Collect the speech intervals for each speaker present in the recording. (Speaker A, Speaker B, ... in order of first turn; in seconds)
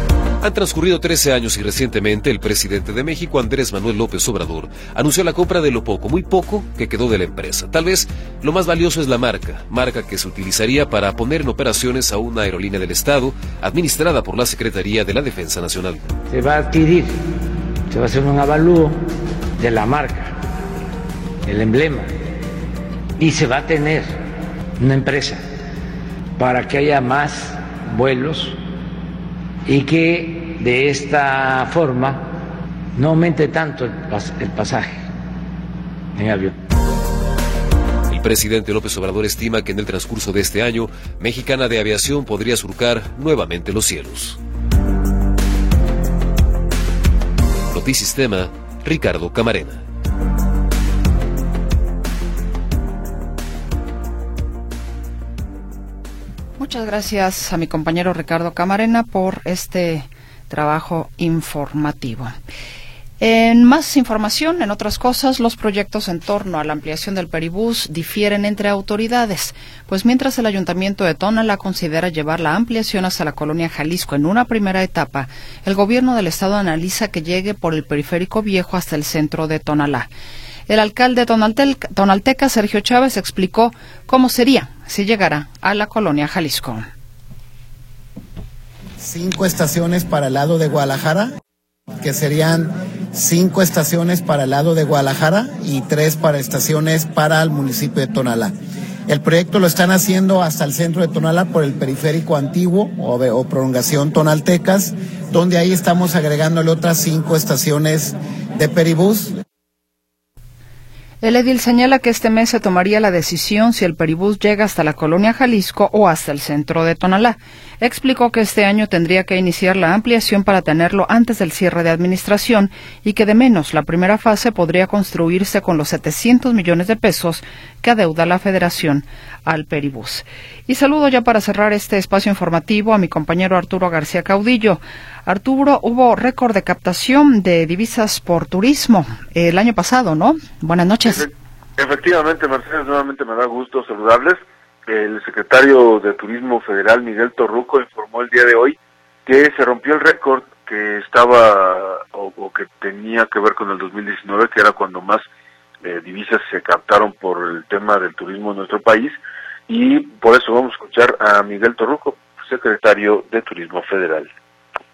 Speaker A: 0.4-16.1, 38.1-44.4, 47.7-49.8
Speaker B: 16.3-17.3, 17.9-19.0, 19.6-20.4, 21.4-22.1, 23.2-24.2, 24.8-25.5, 26.4-28.6, 29.7-32.3, 33.0-35.1, 36.1-36.6
Speaker C: 56.6-62.3, 63.2-80.1, 80.7-86.9, 111.2-141.3
Speaker D: 89.0-91.3, 92.0-98.5, 99.1-109.3
Speaker E: 141.1-155.2, 155.8-159.2, 159.7-164.3